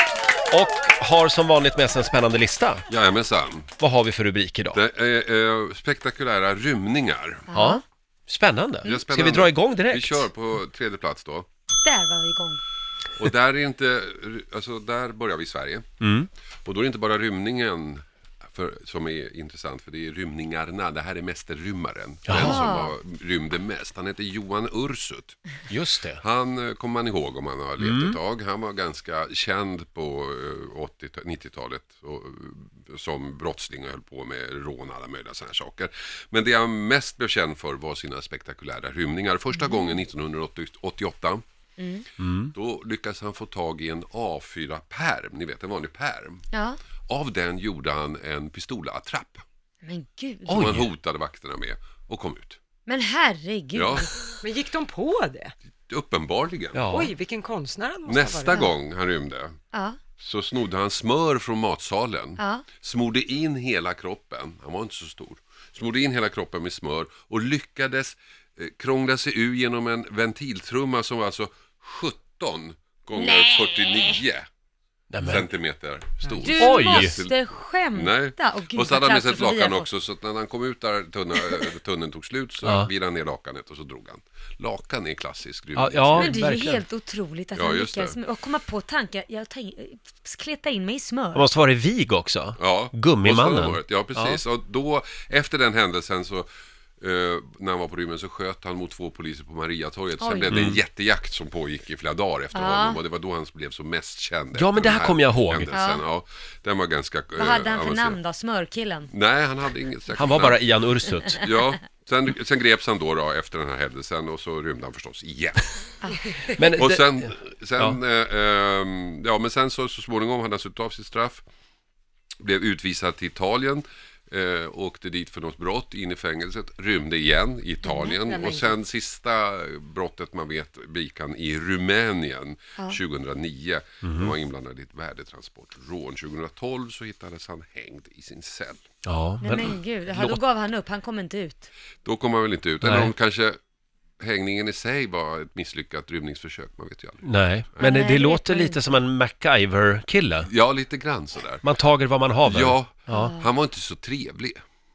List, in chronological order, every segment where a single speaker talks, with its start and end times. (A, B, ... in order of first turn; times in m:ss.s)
0:00.5-0:02.8 A
0:02.9-0:03.7 B
0:03.8-0:04.8 A
0:04.7-0:07.5 B
0:07.5-0:07.8 C
0:07.5-0:10.3 A
0:08.8-0:11.5 B
0:11.8-0:12.6 C
0:13.2-0:15.8 B
0:16.0-0:16.3 A
0:16.6-0:25.4 B
0:22.3-0:22.8 A
0:22.3-0:22.9 C
0:25.7-0:26.2 A
0:26.2-0:41.4 B
0:27.8-0:28.2 A
0:41.8-0:42.1 C
0:42.2-0:42.5 A
0:42.5-0:46.4 B
0:46.5-0:46.8 C
0:47.1-0:49.4 B
0:49.8-0:50.7 C
0:50.5-0:50.9 A
0:50.5-0:52.6 B
0:52.9-0:54.3 C
0:53.7-0:54.1 B
0:54.4-0:55.5 D
0:55.9-0:56.8 B
0:56.7-0:57.1 A
0:56.9-0:58.6 D
0:58.1-0:59.6 B
1:00.2-1:14.5 B
1:02.4-1:02.7 C
1:13.2-1:14.0 C
1:15.1-1:15.5 A
1:15.2-1:17.4 B
1:16.3-1:17.2 A
1:16.4-1:19.9 C
1:17.9-1:26.4 B
1:22.6-1:22.9 A
1:25.8-1:26.8 A
1:26.2-1:31.5 C
1:27.6-1:28.2 B
1:31.4-1:34.4 A
1:32.6-1:36.5 B
1:37.0-1:48.2 B
1:40.2-1:40.6 C
1:40.5-1:40.8 A
1:42.5-1:43.0 C
1:44.6-1:45.8 A
1:45.7-1:46.0 C
1:47.4-1:49.1 C
1:49.1-1:50.6 B
1:50.2-1:51.4 A
1:51.3-1:55.7 B
1:56.6-1:58.0 A
1:56.8-2:01.4 B
2:02.4-2:18.8 B
2:07.8-2:08.7 C
2:14.0-2:14.3 A
2:19.0-2:20.4 A
2:19.4-2:21.7 C
2:22.0-2:23.6 B
2:22.8-2:23.1 A
2:24.2-2:27.2 B
2:27.2-2:30.5 A
2:27.8-2:28.8 C
2:30.5-2:31.6 B
2:31.6-2:33.3 A
2:32.4-2:34.6 B
2:33.1-2:33.5 C